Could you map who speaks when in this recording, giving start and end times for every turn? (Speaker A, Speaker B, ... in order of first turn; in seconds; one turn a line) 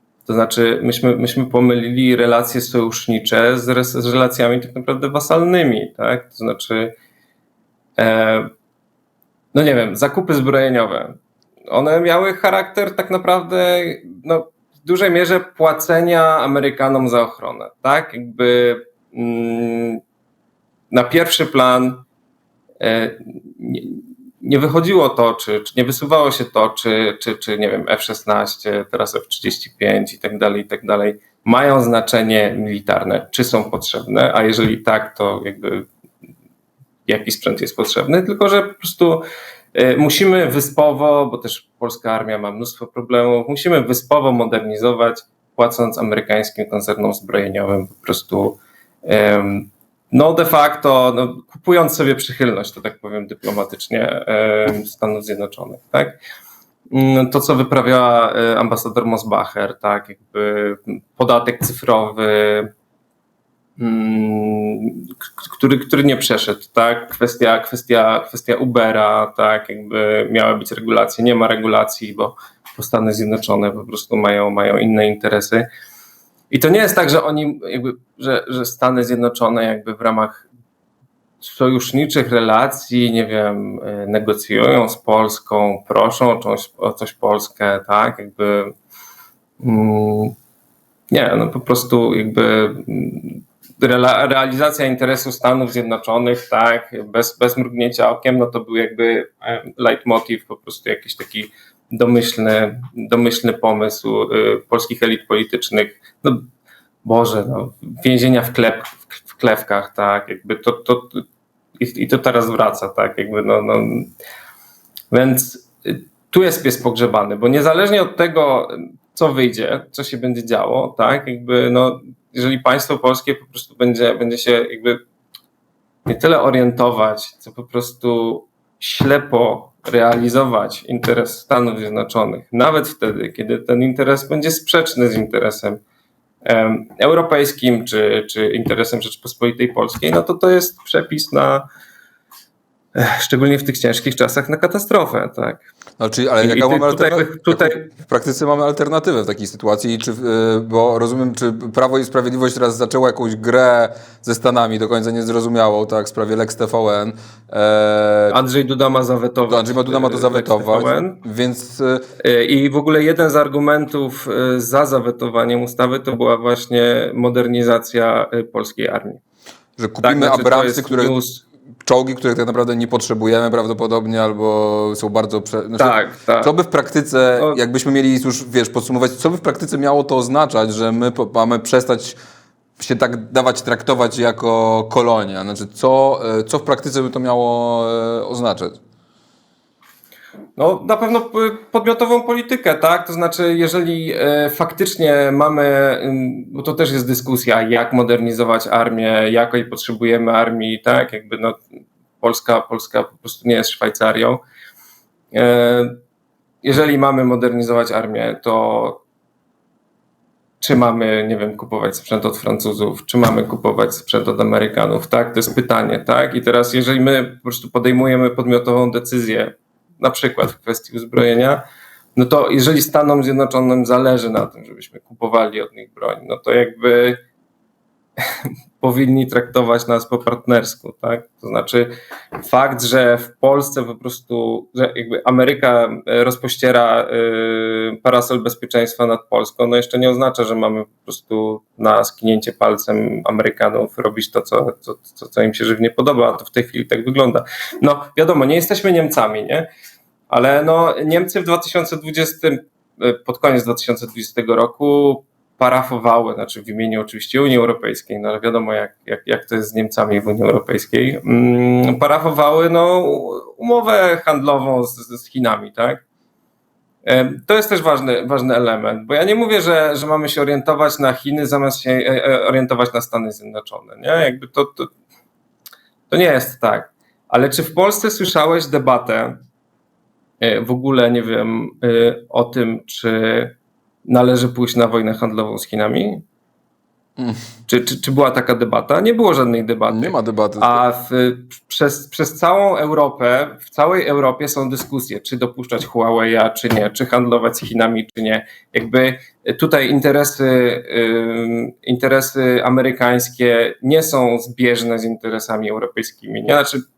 Speaker A: 0.2-6.9
Speaker A: 8.0-8.5
Speaker A: 9.5-11.2
Speaker A: 11.7-20.0
Speaker A: 20.9-22.0
Speaker A: 22.8-35.9
Speaker A: 37.1-56.2
Speaker A: 56.9-62.7
Speaker A: 63.8-75.7
Speaker A: 76.5-80.5
Speaker A: 81.4-88.7
Speaker A: 89.6-90.3
Speaker A: 91.1-106.5
Speaker A: 107.0-111.2
Speaker A: 111.8-114.1
Speaker A: 115.1-125.0
Speaker A: 126.1-135.8
Speaker A: 136.4-141.7
Speaker A: 142.9-145.7
Speaker B: 146.0-158.3
Speaker A: 146.4-147.9
Speaker A: 158.3-161.2
Speaker B: 159.5-162.1
Speaker A: 162.2-169.2
Speaker B: 169.8-171.2
Speaker A: 170.0-171.4
Speaker B: 171.8-182.2
Speaker A: 175.8-176.5
Speaker B: 182.8-188.8
Speaker A: 190.6-201.6
Speaker A: 202.2-204.4
Speaker A: 205.3-206.0
Speaker A: 206.6-209.0
Speaker A: 210.6-221.6
Speaker A: 222.2-227.2
Speaker A: 228.2-249.7
Speaker A: 250.3-266.0
Speaker A: 267.1-274.9
Speaker A: 276.1-279.4
Speaker A: 280.4-283.6
Speaker A: 284.1-286.2
Speaker A: 287.7-306.8
Speaker B: 289.9-290.8